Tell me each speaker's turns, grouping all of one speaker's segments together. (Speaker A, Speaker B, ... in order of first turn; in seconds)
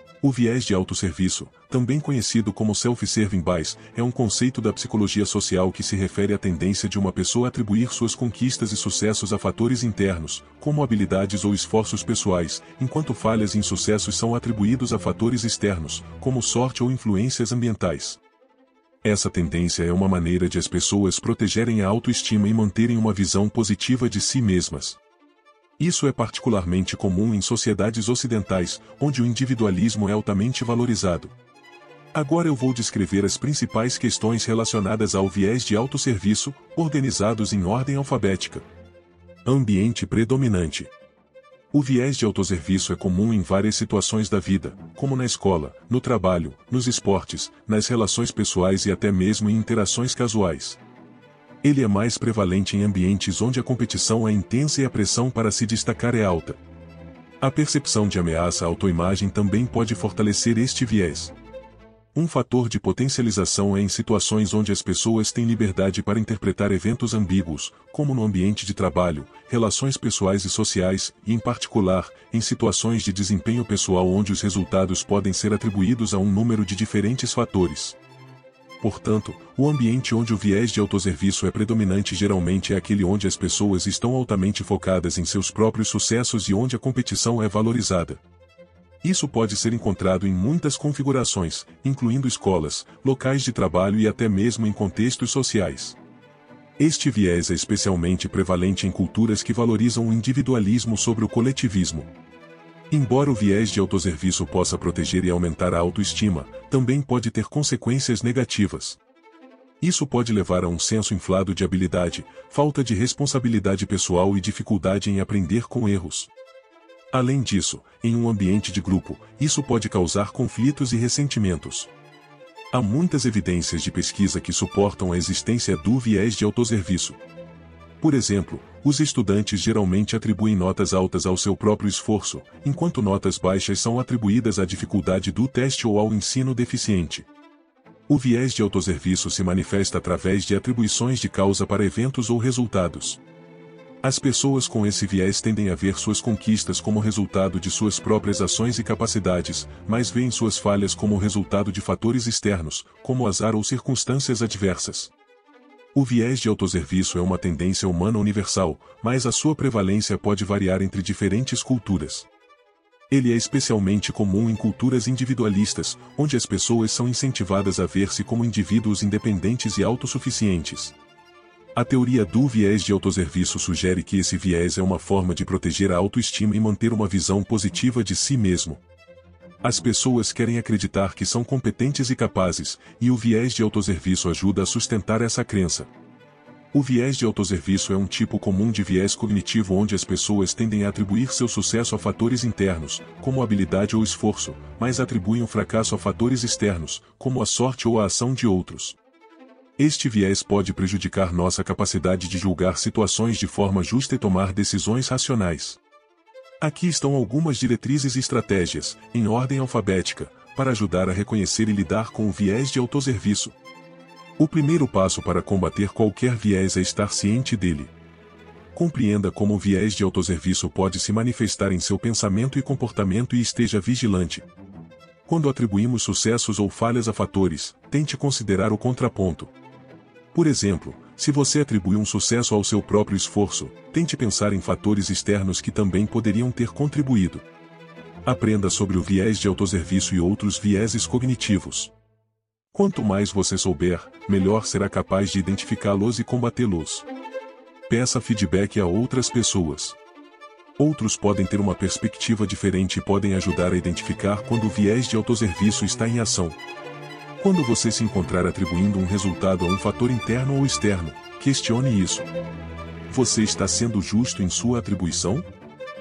Speaker A: 0.2-18.2, 19.0-25.0, 25.8-31.4, 32.1-38.7, 39.5-40.9, 41.7-50.8, 51.6-56.6, 57.4-61.3, 62.1-78.0, 78.8-88.2, 89.0-96.0, 96.8-102.1, 102.9-109.0, 109.8-116.3, 117.1-121.9, 122.7-127.2, 128.0-137.3, 138.1-143.2, 144.0-155.1, 155.9-162.3, 163.1-170.9, 171.8-178.8, 179.6-185.9, 186.7-199.0, 199.8-205.8, 206.6-213.6, 214.4-217.9, 218.7-224.5, 225.3-229.5, 230.3-237.5, 238.2-241.9, 242.7-247.1, 247.9-250.0, 250.8-256.6, 257.4-262.3, 263.1-265.5